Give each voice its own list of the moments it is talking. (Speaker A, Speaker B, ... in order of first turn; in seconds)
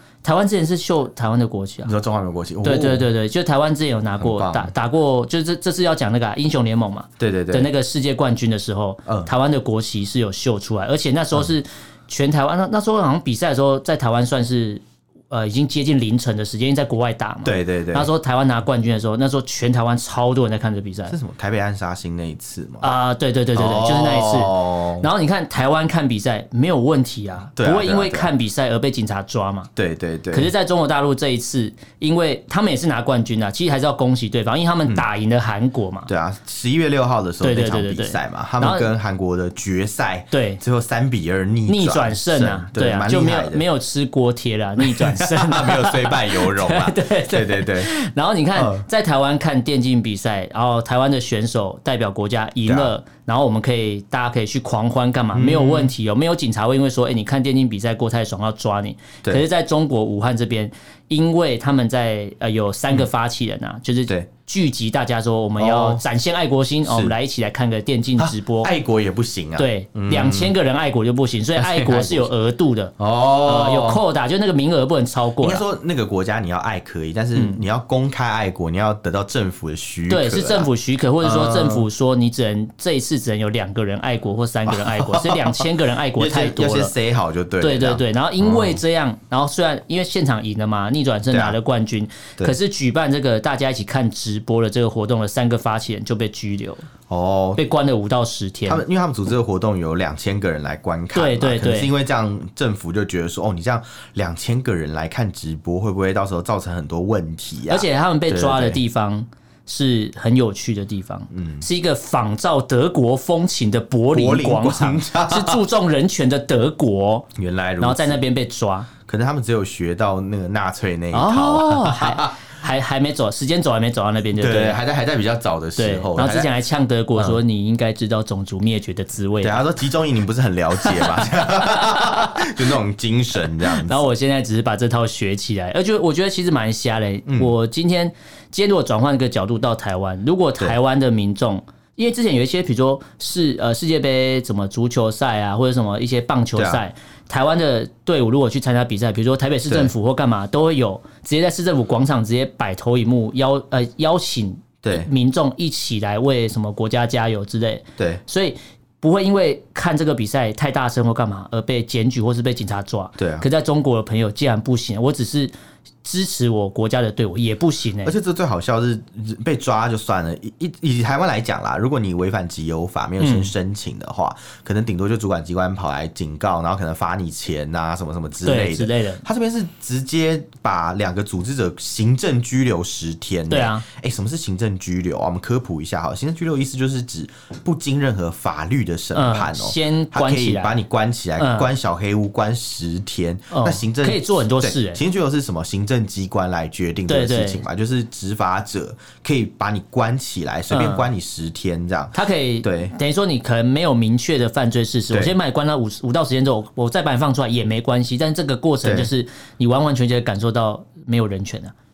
Speaker A: 0.2-1.9, 2.6-21.2, 22.8-29.7, 30.3-36.1, 37.4-38.9, 40.3-40.6, 41.7-68.7, 69.6-75.6, 77.3-77.6, 80.1-86.9, 87.6-96.9, 97.6-98.8, 101.1-101.9, 107.7-117.3, 117.8-118.9, 121.1-124.8, 125.8-129.6, 130.8-132.5, 133.7-165.5, 166.0-168.1, 173.2-173.5, 178.4-179.2, 183.5-183.8, 189.1-190.7, 191.4-191.7, 193.5-195.0, 197.1-197.6, 200.7-201.1, 202.1-211.7
Speaker B: 1.9-3.1, 4.2-4.7, 7.2-7.7, 17.4-18.1, 21.1-22.9, 23.6-25.1, 27.6-28.3, 29.8-30.5, 36.1-43.6, 44.8-47.9, 48.5-48.9, 52.7-52.9, 55.3-55.9, 65.6-66.0, 66.9-67.1, 68.2-70.6, 71.6-72.3, 73.0-74.0, 75.4-80.7, 81.2-81.9, 84.7-88.8, 91.3-91.6, 97.1-97.7, 98.7-108.8, 111.3-111.7, 114.1-115.6, 117.4-118.2, 119.0-122.5, 124.4-126.5, 129.4-134.0, 137.3-137.5, 146.6-146.8, 149.7-149.9, 154.8-155.1, 163.2-163.5, 168.0-202.9, 208.8-209.1